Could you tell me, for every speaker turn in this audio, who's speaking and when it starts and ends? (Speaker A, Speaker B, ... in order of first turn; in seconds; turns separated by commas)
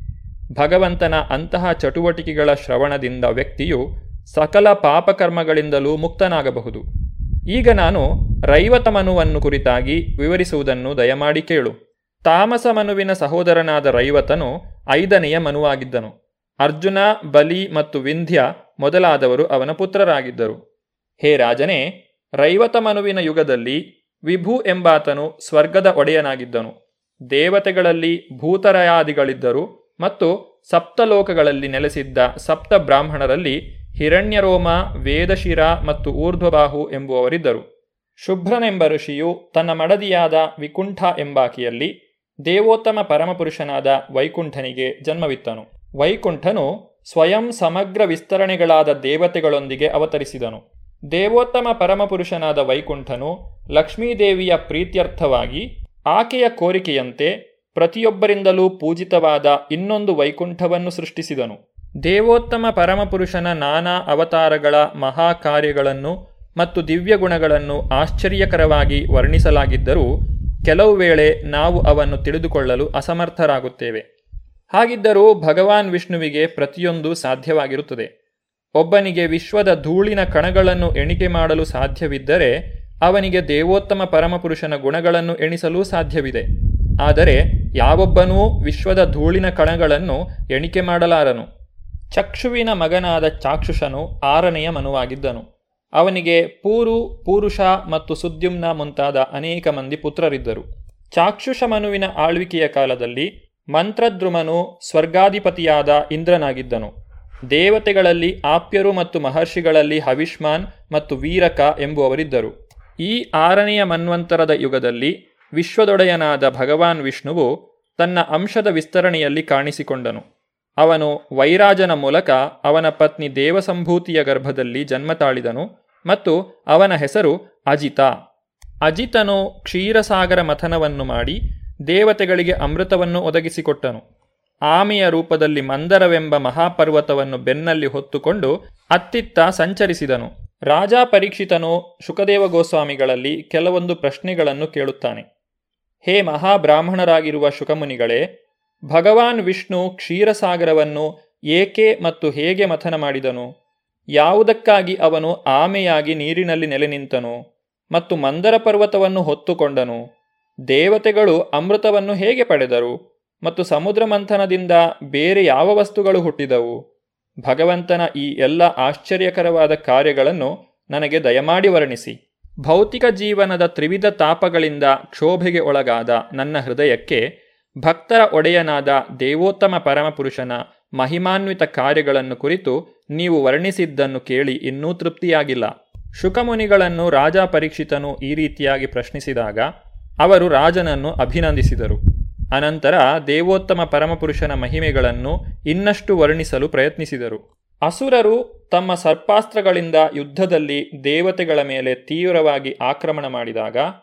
Speaker A: 0.6-3.8, Speaker A: 4.3-6.8, Speaker A: 7.5-11.7, Speaker A: 12.3-20.6, Speaker A: 21.2-21.8, Speaker A: 22.4-26.7, Speaker A: 27.3-37.6, Speaker A: 38.2-41.9, Speaker A: 42.5-50.6, Speaker A: 51.1-70.0, Speaker A: 70.7-74.0, Speaker A: 74.7-78.1, Speaker A: 78.8-82.5, Speaker A: 83.0-86.5, Speaker A: 87.0-91.5, Speaker A: 92.1-95.4, Speaker A: 96.0-100.6, Speaker A: 101.2-106.9, Speaker A: 107.5-117.5, Speaker A: 118.0-120.2, Speaker A: 120.8-128.1, Speaker A: 128.9-131.4, Speaker A: 131.9-134.0, Speaker A: 134.7-145.2, Speaker A: 146.0-148.2, Speaker A: 148.9-153.5, Speaker A: 154.2-157.3, Speaker A: 157.9-160.0, Speaker A: 160.7-166.8, Speaker A: 167.4-172.1, Speaker A: 172.7-177.2, Speaker A: 177.8-189.7, Speaker A: 190.2-192.0, Speaker A: 192.5-203.8